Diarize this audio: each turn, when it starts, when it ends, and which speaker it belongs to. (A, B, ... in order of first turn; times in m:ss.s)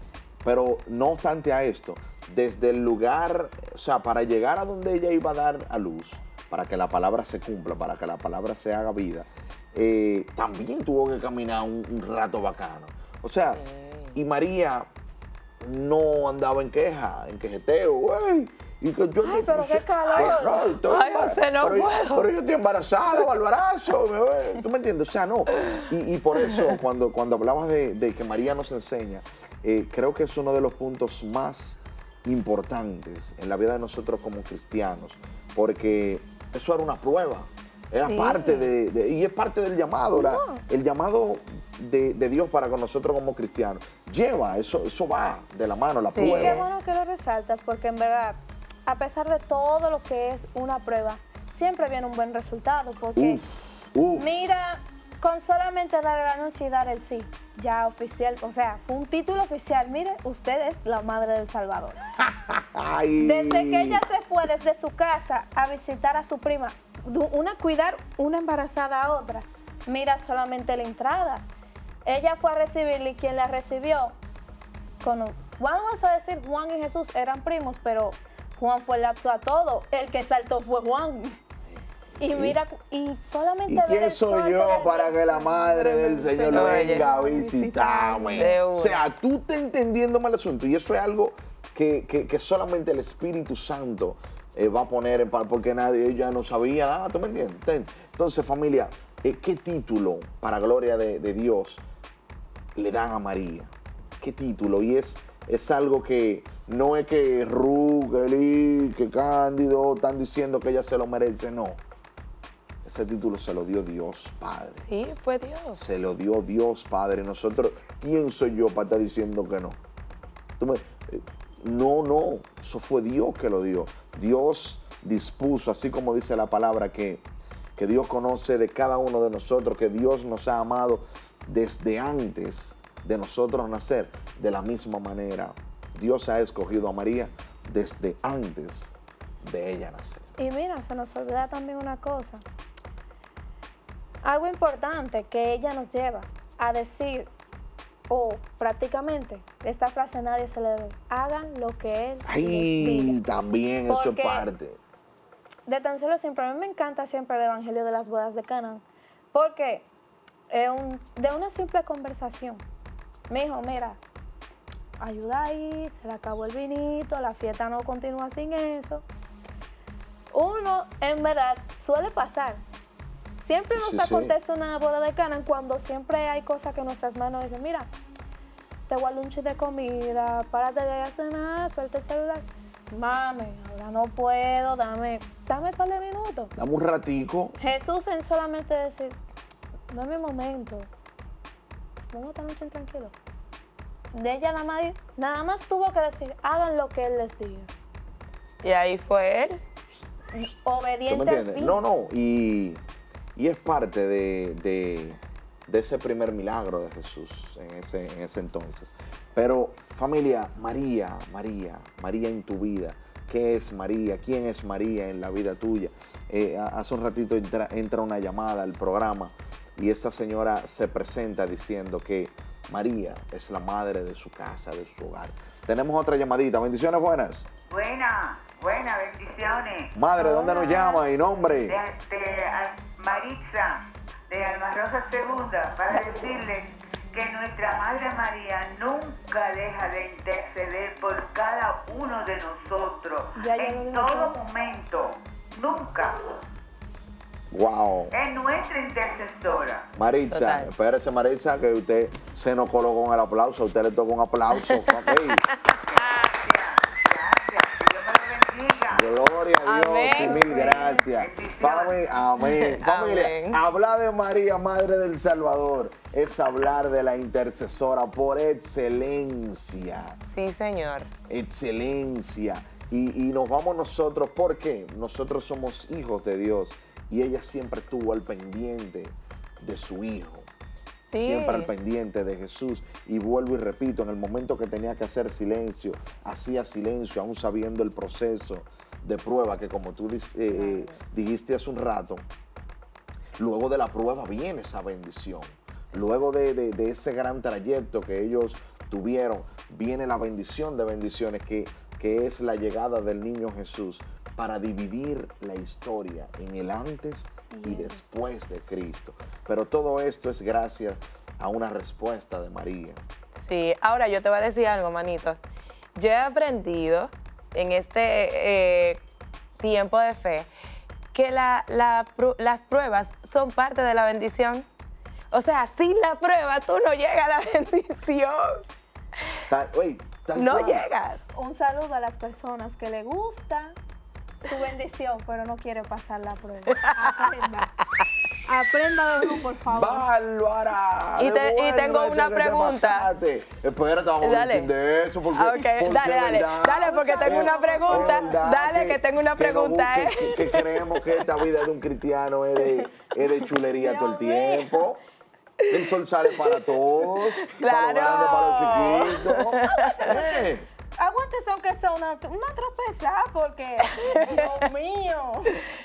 0:00.4-0:13.6 A
0:13.6-0:14.1 B
0:14.1-0:14.9 A
0:15.6-0:46.7 A
0:19.2-0:20.5 C
0:20.1-0:22.3 B
0:38.0-0:38.7 B
0:40.1-0:40.6 C
0:46.1-0:46.7 B
0:46.3-0:53.4 C
0:53.2-0:54.4 A
0:54.2-1:02.0 C
1:02.2-1:04.0 A
1:03.2-1:11.4 C
1:12.0-1:14.2 C
1:15.0-1:21.4 C
1:22.2-1:22.6 A
1:22.2-1:28.5 C
1:23.7-1:41.8 A
1:26.5-1:27.1 B
1:28.4-1:29.0 B
1:42.8-1:51.8 A
1:52.8-1:54.9 A
1:54.8-1:56.0 B
1:55.8-1:59.8 A
2:00.6-2:07.2 A
2:07.8-2:20.3 A
2:20.4-2:22.4 C
2:24.2-2:27.3 C
2:28.1-2:33.2 C
2:32.2-2:34.8 A
2:33.9-2:34.5 C
2:35.7-2:39.9 C
2:40.5-2:42.6 C
2:43.3-2:44.0 C
2:45.0-2:49.0 C
2:50.3-2:52.6 C
2:53.4-2:57.9 C
2:53.7-2:54.4 A
2:58.9-3:06.5 C
3:06.6-3:07.6 A
3:07.6-3:09.2 C
3:09.9-3:10.9 C
3:12.1-3:13.2 C
3:14.1-3:17.7 C
3:18.6-3:19.6 B
3:20.3-3:21.8 C
3:21.1-3:22.8 A
3:23.4-3:47.5 A
3:47.7-3:49.9 D
3:50.0-3:51.8 A
3:50.2-3:50.9 C
3:50.6-3:50.9 D
3:51.6-4:06.3 D
4:03.4-4:04.4 C
4:07.5-4:08.1 A
4:08.1-4:09.9 D
4:10.0-4:15.5 A
4:10.3-4:10.7 B
4:14.7-4:15.1 B
4:15.8-4:19.1 D
4:18.9-4:30.2 A
4:19.6-4:20.8 B
4:20.2-4:21.0 C
4:20.7-4:22.0 D
4:22.4-4:23.6 B
4:30.3-4:31.1 B
4:31.3-4:40.5 A
4:41.0-4:41.7 B
4:41.2-4:52.2 A
4:50.5-4:51.0 B
4:53.4-5:13.0 A
5:07.5-5:08.0 C
5:13.4-5:15.4 B
5:16.0-5:19.0 B
5:19.6-5:20.5 B
5:21.1-5:24.6 B
5:25.3-5:28.6 B
5:29.5-5:30.9 A
5:30.4-5:31.3 B
5:31.4-5:33.8 C
5:34.4-5:37.7 C
5:36.8-5:37.3 B
5:38.5-5:40.1 C
5:39.7-5:55.0 A
5:41.2-5:43.1 B
5:44.2-5:44.7 B
5:45.3-5:51.0 B
5:46.8-5:48.4 C
5:53.8-5:54.9 C
5:55.7-6:00.7 A
5:57.5-6:00.0 B
5:59.6-6:00.4 C
6:01.0-6:05.6 C